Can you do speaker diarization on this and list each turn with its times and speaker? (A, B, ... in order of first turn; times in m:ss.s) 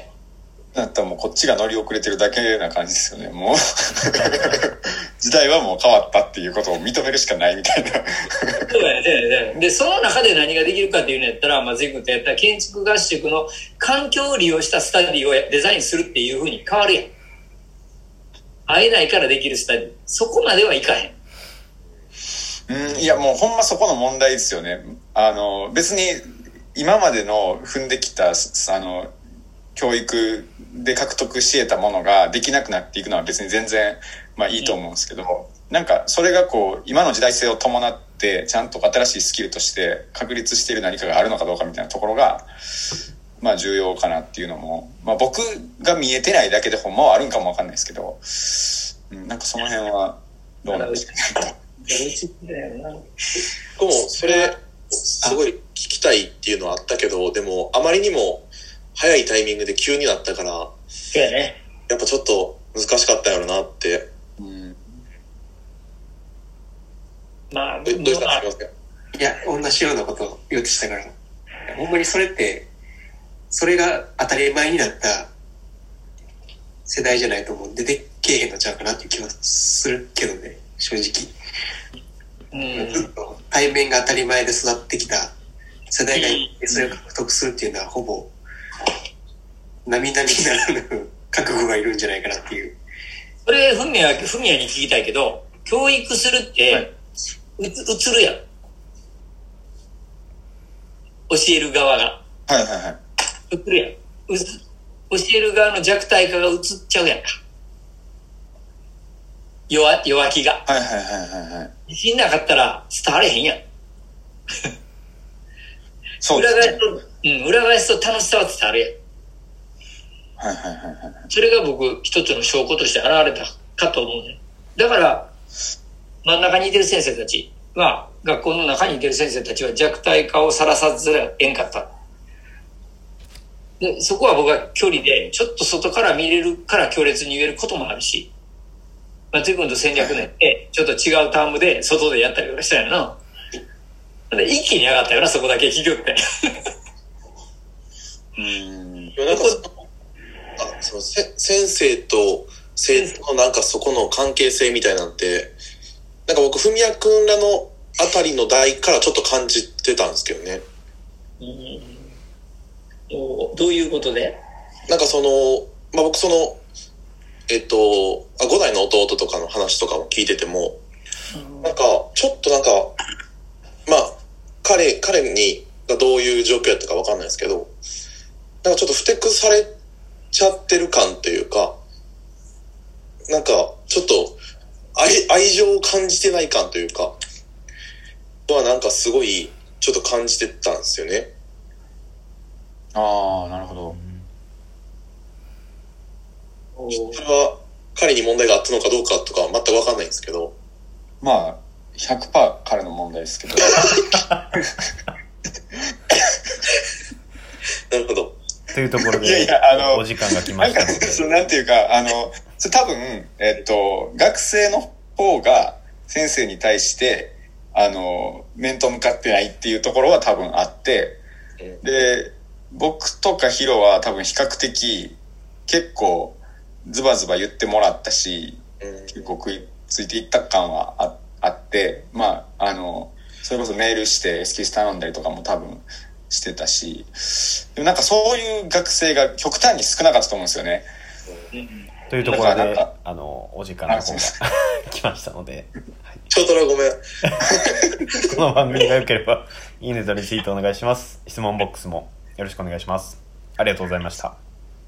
0:00.7-0:08.7 A
0:08.7-0:17.1 B
0:18.7-0:21.2 B
0:22.7-0:29.1 A
0:29.8-0:42.5 A
0:43.4-0:51.5 A
0:50.7-0:51.1 B
0:51.8-0:53.0 B
0:53.8-1:00.7 C
0:54.2-0:54.5 B
1:01.1-1:01.6 B
1:01.9-1:04.1 C
1:04.4-1:05.0 A
1:07.5-1:08.4 B
1:07.9-1:08.7 C
1:09.2-1:11.2 D
1:11.7-1:12.7 D
1:13.5-1:15.3 D
1:16.9-1:21.3 D
1:22.5-1:23.1 B
1:22.7-1:25.4 D
1:25.9-1:28.3 D
1:26.2-1:27.0 B
1:29.8-1:32.8 D
1:33.5-1:36.9 B
1:37.6-1:38.4 B
1:41.3-1:42.2 B
1:42.5-1:43.0 A
1:43.5-1:44.6 B
1:45.1-1:47.4 B
1:49.7-1:50.6 B
1:50.7-1:51.7 A
1:51.9-1:53.6 B
1:56.2-1:56.8 A
1:56.3-1:59.0 B
2:00.4-2:01.3 A
2:01.3-2:05.3 B
2:06.2-2:11.9 B
2:13.8-2:18.3 B
2:15.0-2:15.3 A
2:19.3-2:23.2 B
2:20.0-2:20.3 A
2:24.3-2:26.2 B
2:28.4-2:29.1 A
2:29.2-2:29.7 C
2:29.3-2:29.6 B
2:30.6-2:35.6 C
2:32.9-2:33.2 B
2:36.3-2:40.6 C
2:41.4-2:42.2 B
2:43.1-2:44.4 B
2:44.9-2:46.6 C
2:47.5-2:50.8 C
2:51.3-2:51.8 B
2:51.6-2:52.9 C
2:53.9-2:57.7 C
2:58.6-2:59.7 C
3:00.3-3:01.8 C
3:03.3-3:04.4 C
3:05.0-3:07.2 C
3:08.5-3:11.3 C
3:13.0-3:14.0 A
3:13.3-3:14.3 E
3:17.1-3:20.5 C
3:21.2-3:24.0 A
3:27.9-3:28.4 C
3:28.7-3:31.3 E
3:29.2-3:41.2 A
3:41.8-3:48.6 A
3:48.8-3:49.3 C
3:49.1-4:00.9 A
4:01.5-4:02.4 B
4:02.1-4:06.3 E
4:02.2-4:02.9 A
4:03.9-4:04.3 A
4:06.3-4:07.0 C
4:08.3-4:14.4 E